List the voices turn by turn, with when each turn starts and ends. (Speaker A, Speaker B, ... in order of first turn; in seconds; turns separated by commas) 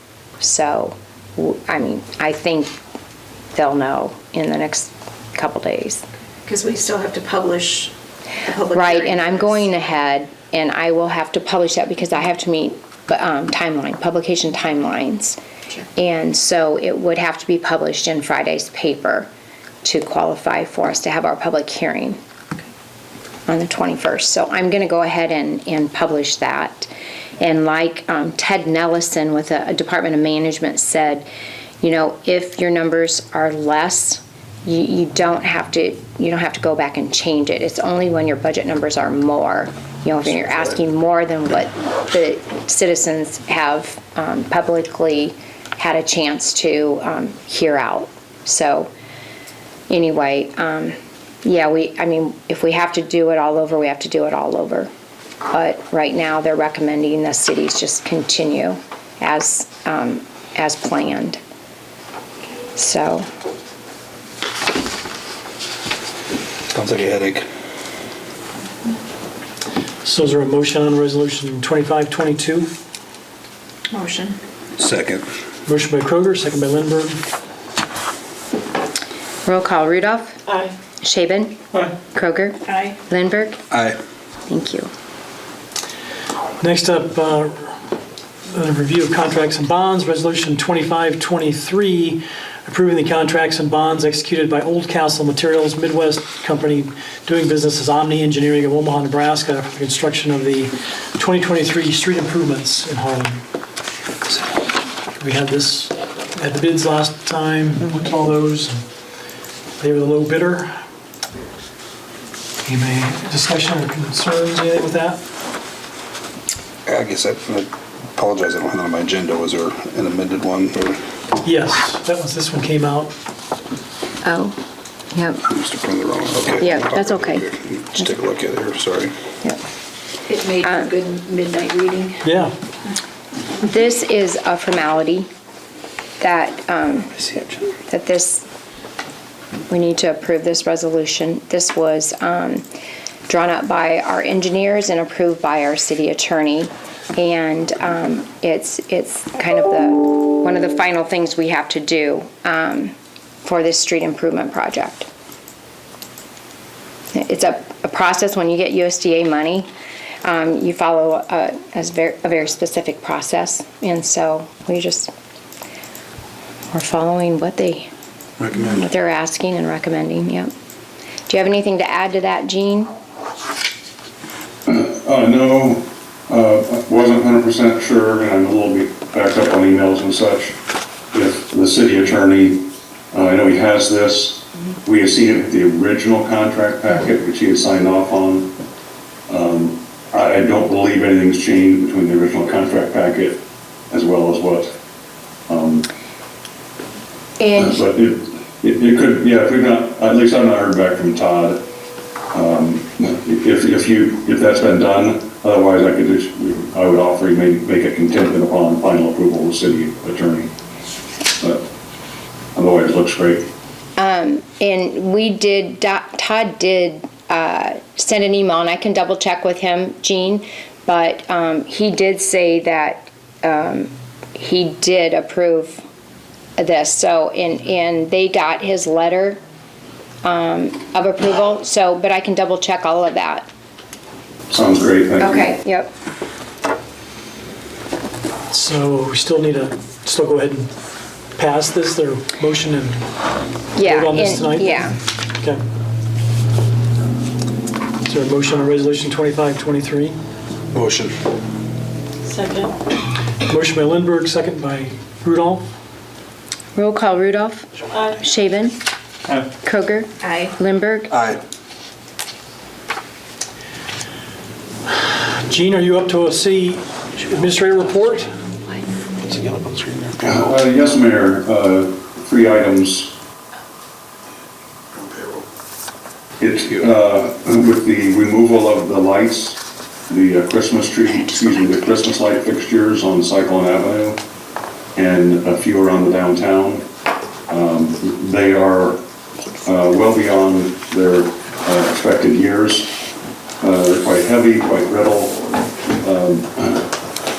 Speaker A: 0.4-2.8, Speaker A: 3.5-6.0, Speaker B: 6.5-9.4, Speaker A: 8.7-15.4, Speaker A: 16.0-19.3, Speaker A: 19.8-22.2, Speaker A: 23.5-26.9, Speaker A: 27.4-31.3, Speaker A: 31.8-48.9, Speaker A: 49.9-54.9, Speaker A: 55.5-61.4, Speaker A: 62.7-63.3, Speaker C: 66.7-67.4, Speaker D: 70.0-72.7, Speaker B: 73.9-74.4, Speaker C: 74.8-75.2, Speaker D: 75.7-77.2, Speaker A: 79.4-80.4, Speaker A: 81.0-83.6, Speaker B: 82.7-83.0, Speaker C: 83.7-84.0, Speaker A: 84.5-84.9, Speaker D: 86.6-87.7, Speaker D: 88.5-103.4, Speaker D: 105.2-108.8, Speaker D: 109.8-110.7, Speaker D: 112.6-115.2, Speaker C: 116.9-121.0, Speaker D: 121.4-123.1, Speaker A: 124.2-124.5, Speaker A: 125.1-125.4, Speaker C: 125.4-129.1, Speaker A: 126.6-128.1, Speaker B: 130.3-132.2, Speaker A: 130.6-130.9, Speaker D: 132.2-132.5, Speaker A: 133.6-135.3, Speaker A: 136.2-137.2, Speaker A: 137.9-138.5, Speaker A: 139.7-142.7, Speaker A: 143.3-155.1, Speaker A: 157.1-159.7, Speaker A: 160.2-165.1, Speaker A: 166.7-167.9, Speaker C: 168.4-168.7, Speaker A: 168.5-170.5, Speaker A: 171.3-172.9, Speaker E: 174.7-180.6, Speaker E: 181.1-188.5, Speaker E: 189.3-194.7, Speaker E: 195.5-195.9, Speaker A: 197.4-197.8, Speaker E: 197.6-201.7, Speaker E: 202.3-210.5, Speaker E: 212.5-213.5, Speaker A: 214.0-225.8, Speaker A: 226.6-229.4, Speaker A: 230.2-233.5, Speaker E: 234.5-235.5, Speaker A: 235.2-235.9, Speaker D: 238.5-240.7, Speaker D: 241.3-243.0, Speaker A: 243.8-245.0, Speaker D: 243.8-245.6, Speaker D: 248.0-250.2, Speaker C: 250.7-251.2, Speaker D: 252.3-252.8, Speaker D: 253.4-255.6, Speaker A: 256.8-258.8, Speaker A: 259.6-261.1, Speaker B: 260.2-260.5, Speaker C: 261.1-261.4, Speaker D: 265.0-268.3, Speaker C: 269.2-270.5, Speaker E: 270.2-273.2, Speaker C: 275.0-275.4, Speaker E: 276.4-284.2, Speaker E: 284.9-286.9, Speaker E: 287.5-289.0, Speaker E: 289.6-292.9, Speaker E: 293.6-295.4, Speaker E: 296.0-296.9